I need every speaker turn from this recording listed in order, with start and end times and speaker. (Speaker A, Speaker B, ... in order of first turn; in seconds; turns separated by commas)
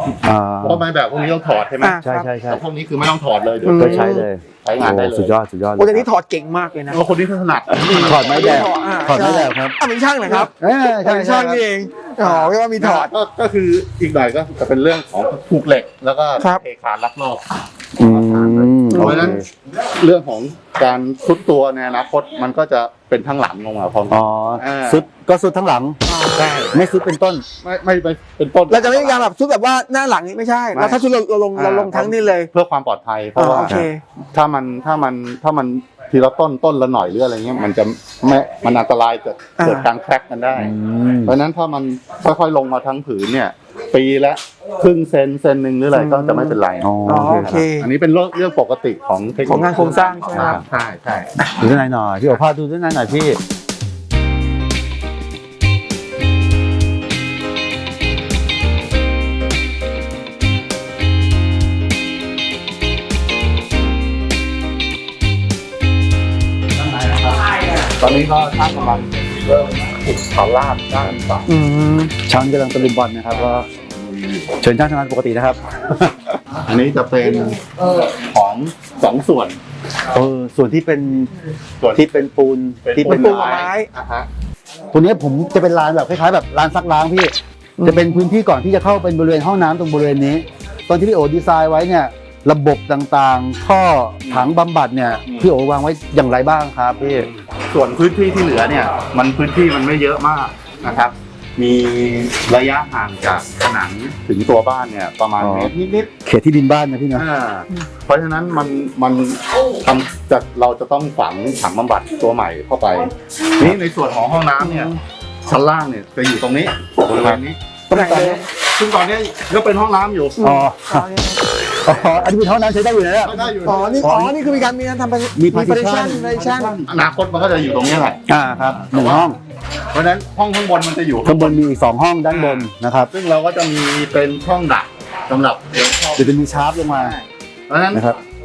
Speaker A: 0.2-0.8, Speaker B: 0.6-5.4, Speaker C: 1.8-2.3, Speaker A: 2.0-2.6, Speaker C: 3.6-4.2, Speaker A: 3.8-6.1, Speaker C: 5.8-7.0, Speaker B: 6.9-8.5, Speaker C: 7.8-13.1, Speaker A: 7.9-9.7, Speaker A: 10.3-11.6, Speaker B: 12.2-25.1, Speaker A: 18.0-19.4, Speaker C: 18.9-19.4, Speaker A: 24.1-26.0, Speaker C: 26.1-26.5, Speaker B: 26.3-26.8, Speaker A: 26.7-27.4, Speaker B: 27.6-29.3, Speaker C: 28.7-32.5, Speaker B: 30.7-31.0, Speaker B: 31.5-33.8, Speaker C: 33.4-34.0, Speaker B: 34.3-40.7, Speaker C: 39.6-39.9, Speaker A: 40.5-41.4, Speaker B: 41.2-51.3, Speaker C: 45.9-47.9, Speaker A: 46.8-47.5, Speaker C: 49.4-50.6, Speaker A: 50.3-50.6, Speaker A: 51.6-53.4, Speaker A: 66.8-67.5, Speaker B: 67.9-71.5, Speaker C: 71.5-72.1, Speaker A: 72.2-73.7, Speaker B: 73.4-74.5, Speaker A: 74.6-76.3, Speaker B: 76.5-79.6, Speaker A: 80.1-81.3, Speaker B: 81.8-82.1, Speaker A: 81.9-83.4, Speaker B: 82.8-84.3, Speaker C: 83.0-83.9, Speaker A: 84.9-97.3, Speaker C: 87.8-88.1, Speaker B: 94.2-94.5, Speaker B: 95.2-95.5, Speaker B: 97.0-106.1, Speaker A: 105.4-107.2, Speaker B: 107.1-120.4, Speaker C: 114.6-115.0, Speaker A: 117.0-117.4, Speaker C: 117.9-118.4, Speaker C: 120.4-121.5, Speaker A: 120.4-121.1, Speaker A: 121.8-123.4, Speaker B: 123.2-124.4, Speaker C: 123.6-126.8, Speaker A: 125.3-126.7, Speaker B: 126.2-129.3, Speaker A: 128.3-129.4, Speaker B: 129.9-131.6, Speaker A: 131.2-133.1, Speaker B: 132.3-138.1, Speaker A: 136.2-137.1, Speaker A: 137.9-138.2